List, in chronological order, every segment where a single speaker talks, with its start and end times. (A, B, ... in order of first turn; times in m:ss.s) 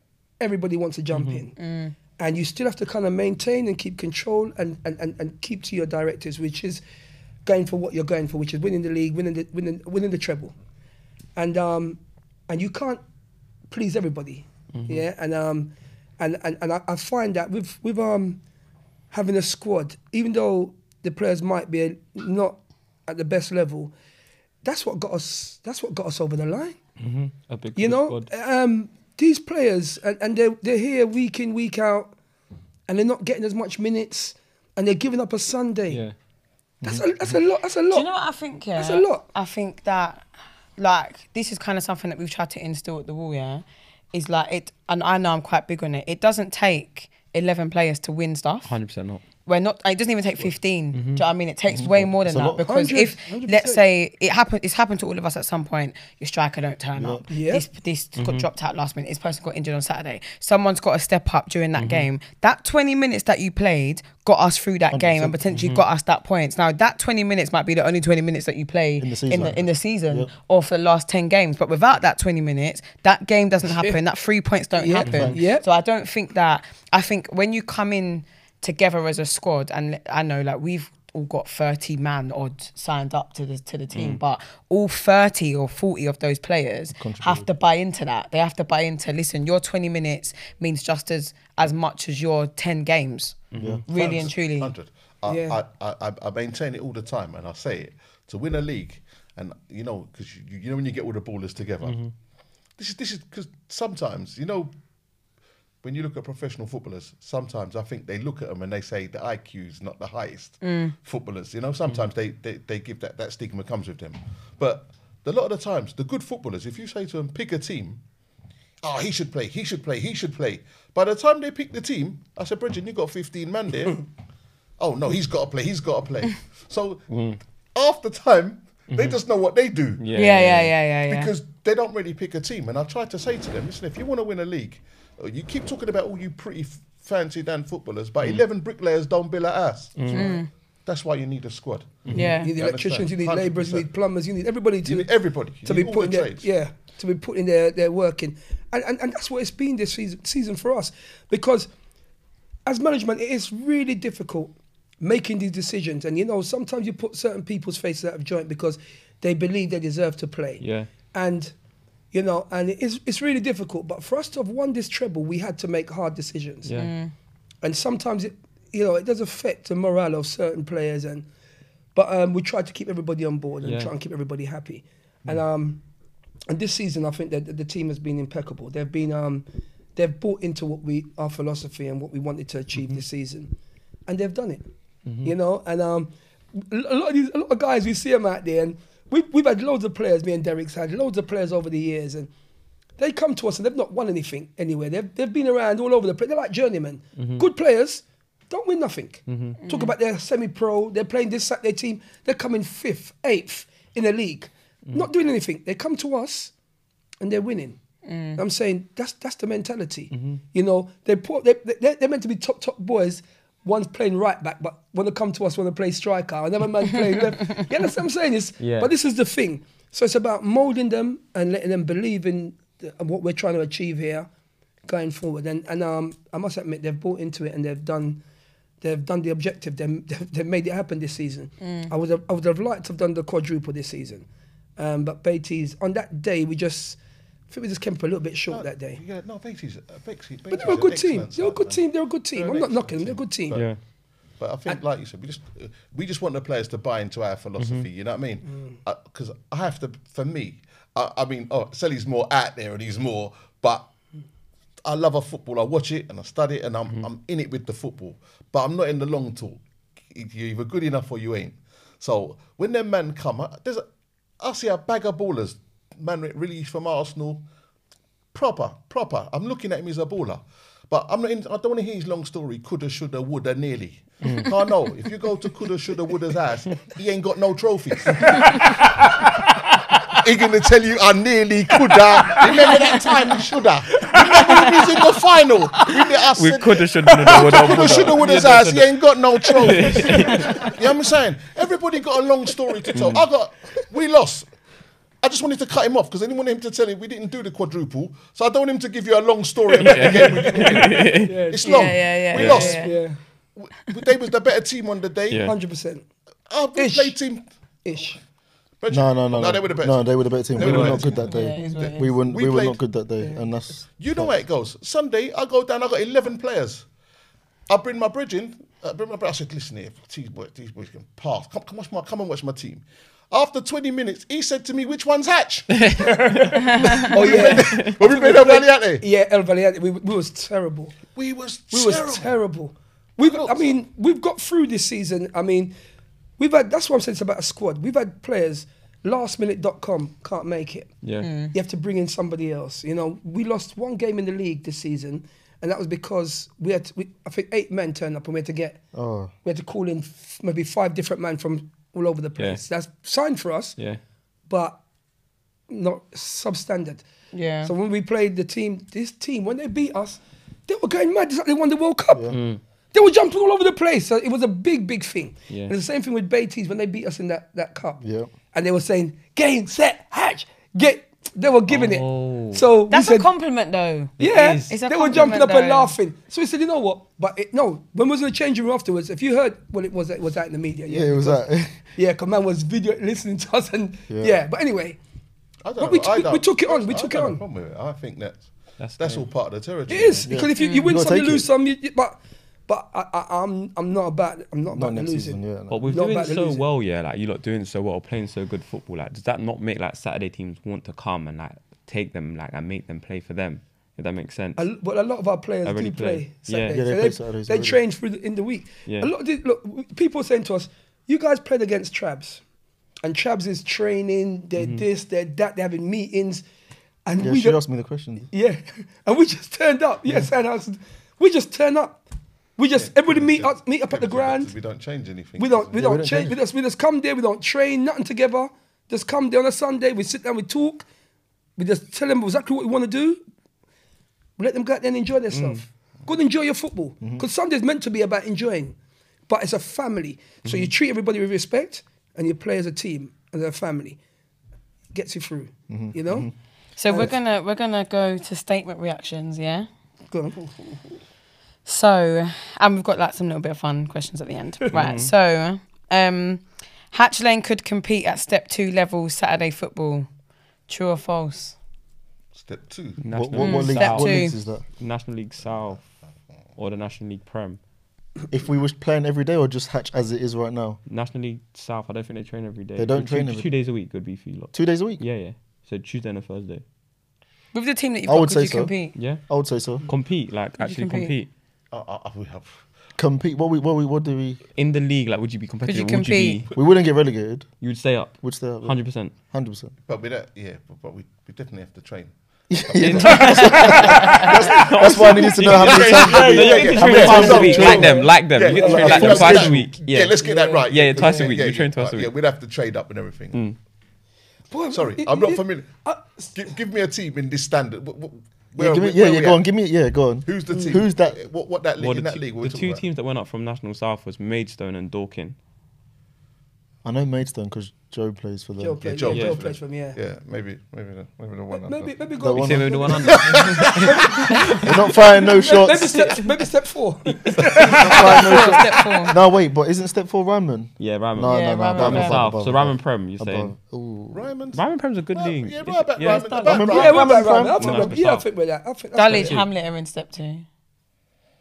0:00.4-0:01.5 A
0:01.1-0:01.4 B
0:01.6-0:01.9 C
0:02.2-0:06.8 A
0:07.4-0:10.5 A
0:11.4-0:13.0 A
0:13.7-0:18.4 A
0:14.7-0:15.0 B
0:19.1-0:23.9 A
0:24.6-0:26.8 A
0:27.0-0:28.3 B
0:27.8-0:32.1 A
0:32.9-0:36.0 A
0:35.9-0:36.1 B
0:36.8-0:37.3 D
0:36.8-0:38.1 A
0:37.9-0:40.2 C
0:38.8-0:39.2 A
0:40.8-0:48.7 C
0:48.6-0:49.2 B
0:49.4-1:34.7 C
0:50.9-0:51.2 B
0:51.7-0:52.6 D
0:52.6-0:53.8 A
0:57.0-0:57.2 D
0:57.3-0:57.6 A
0:58.2-0:58.4 B
1:01.8-1:02.0 B
1:04.9-1:05.5 D
1:05.5-1:05.8 B
1:09.0-1:10.3 D
1:14.8-1:15.6 A
1:15.1-1:15.4 D
1:23.9-1:24.2 B
1:26.9-1:27.5 D
1:33.5-1:33.8 B
1:33.5-1:33.8 D
1:33.9-1:42.0 E
1:35.3-1:35.6 A
1:41.8-1:42.1 B
1:42.8-1:44.7 E
1:45.8-1:58.0 E
1:50.6-1:50.9 C
1:58.8-2:04.0 E
2:04.8-2:07.0 E
2:07.1-2:07.4 B
2:07.7-2:10.0 E
2:08.9-2:09.2 B
2:10.0-2:10.7 B
2:10.1-2:11.3 C
2:11.0-2:23.9 E
2:20.0-2:20.3 B
2:20.1-2:20.5 C
2:22.0-2:22.3 B
2:22.1-2:22.5 C
2:22.4-2:25.1 A
2:24.8-2:26.5 E
2:25.6-2:31.7 A
2:32.6-2:41.5 A
2:40.6-2:40.9 B
2:42.1-2:46.7 A
2:46.6-2:46.9 B
2:46.7-2:47.1 C
2:47.6-2:51.2 A
2:51.9-2:55.8 A
2:53.6-2:53.9 B
2:56.5-3:03.5 A
3:02.7-3:03.0 B
3:04.1-3:04.7 A
3:05.0-3:05.3 B
3:05.2-3:12.3 A
3:13.0-3:26.5 A
3:17.2-3:17.4 B
3:19.3-3:19.6 B
3:19.6-3:19.9 C
3:27.2-3:27.8 A
3:28.0-3:28.4 C
3:28.4-3:44.3 A
3:30.1-3:30.4 B
3:38.6-3:38.9 B
3:44.8-3:48.2 A
3:48.8-3:54.2 A
3:51.6-3:51.9 C
3:54.8-3:59.0 A
3:58.5-4:03.7 E
4:00.5-4:03.6 A
4:03.5-4:03.8 B
4:04.3-4:13.9 E
4:07.6-4:07.9 B
4:14.8-4:23.8 E
4:24.4-4:27.4 E
4:28.3-4:38.7 E
4:38.2-4:39.3 B
4:40.2-4:54.5 E
4:42.3-4:42.9 B
4:43.9-4:44.9 B
4:46.3-4:50.7 B
4:52.9-4:53.2 B
4:55.2-5:02.9 E
4:59.8-5:03.2 A
4:59.8-5:01.3 B
5:01.6-5:03.0 C
5:02.3-5:02.7 B
5:03.5-5:05.5 E
5:05.4-5:06.0 A
5:06.5-5:07.5 E
5:06.8-5:07.2 A
5:07.8-5:08.2 A
5:08.8-5:12.8 E
5:08.9-5:14.3 D
5:10.6-5:11.0 B
5:11.1-5:12.1 C
5:14.0-5:16.8 E
5:17.7-5:25.9 E
5:25.8-5:26.6 B
5:26.0-5:31.0 A
5:26.6-5:29.0 E
5:27.2-5:27.9 B
5:31.1-5:32.4 E
5:31.7-5:35.7 A
5:33.2-5:33.8 E
5:36.4-5:40.9 A
5:41.0-5:41.3 B
5:41.2-5:41.5 C
5:41.5-5:48.8 A
5:48.9-5:49.3 D
5:49.4-5:53.8 A
5:54.5-5:54.8 A
5:55.7-5:57.0 A
5:57.3-5:57.7 C
5:57.6-6:02.4 A
6:02.3-6:02.6 B
6:02.9-6:13.3 A
6:05.5-6:05.7 B
6:08.0-6:08.3 D
6:11.7-6:12.6 B
6:12.9-6:15.9 C
6:14.2-6:15.3 B
6:14.2-6:21.4 A
6:20.9-6:21.8 D
6:21.9-6:25.0 A
6:24.1-6:24.4 D
6:25.6-6:30.3 E
6:25.8-6:27.4 A
6:28.8-6:29.3 B
6:29.9-6:36.6 A
6:30.3-6:31.5 D
6:30.6-6:30.9 C
6:34.7-6:35.8 D
6:35.7-6:44.7 B
6:44.6-6:52.4 A
6:45.6-6:46.8 B
6:46.7-6:47.8 D
6:48.8-6:49.1 B
6:53.0-6:56.4 A
6:54.6-6:54.8 B
6:57.0-6:57.6 A
6:57.2-6:58.3 D
6:58.3-7:02.0 A
7:00.0-7:00.3 D
7:02.6-7:04.5 A
7:02.8-7:06.1 E
7:05.4-7:10.8 A
7:05.8-7:06.4 D
7:11.6-7:13.2 A
7:14.4-7:18.8 A
7:15.3-7:15.6 B
7:19.3-7:24.0 A
7:20.4-7:20.7 B
7:24.9-7:26.3 A
7:25.7-7:26.3 D
7:26.8-7:29.7 C
7:26.9-7:27.1 A
7:30.1-7:30.4 A
7:31.6-7:40.1 C
7:34.7-7:35.1 B
7:40.7-7:41.6 C
7:42.3-7:43.1 E
7:43.0-7:45.9 B
7:43.1-7:44.6 D
7:43.4-7:44.3 C
7:46.6-7:47.6 B
7:48.3-7:50.8 D
7:50.9-7:56.6 B
7:52.8-7:53.5 D
7:54.5-7:55.0 D
7:57.5-7:58.9 C
7:58.1-7:58.7 D
7:59.0-7:59.2 B
7:59.3-7:59.8 D
7:59.8-8:01.3 B
8:00.6-8:01.1 C
8:01.7-8:02.6 E
8:03.0-8:04.4 D
8:04.6-8:06.5 B
8:05.6-8:06.4 C
8:06.5-8:07.5 D
8:07.6-8:09.1 B
8:08.2-8:08.8 D
8:09.3-8:09.7 D
8:09.8-8:12.1 E
8:12.5-8:19.7 D
8:12.8-8:22.1 B
8:14.5-8:23.4 E
8:15.0-8:19.4 A
8:20.2-8:21.3 A
8:24.5-8:26.3 A
8:24.7-8:25.8 E
8:26.3-8:29.4 E
8:28.6-8:31.2 D
8:30.2-8:32.8 E
8:30.5-8:30.8 A
8:31.8-8:35.3 B
8:36.8-8:39.2 D
8:38.6-8:40.0 A
8:39.0-8:42.0 E
8:39.1-8:39.4 B
8:41.5-8:49.1 A
8:42.2-8:42.8 D
8:42.3-8:44.6 B
8:42.9-8:44.3 E
8:44.6-8:46.0 D
8:45.9-8:46.2 B
8:47.6-8:48.1 E
8:47.6-8:54.2 D
8:48.0-8:49.2 C
8:50.8-8:53.5 B
8:51.3-8:52.2 C
8:54.1-8:57.4 E
8:54.5-8:56.4 B
8:56.0-8:56.7 C
8:56.4-8:57.9 D
8:56.6-8:59.4 A
8:57.2-8:58.2 B
8:58.9-9:00.4 C
8:59.1-8:59.4 B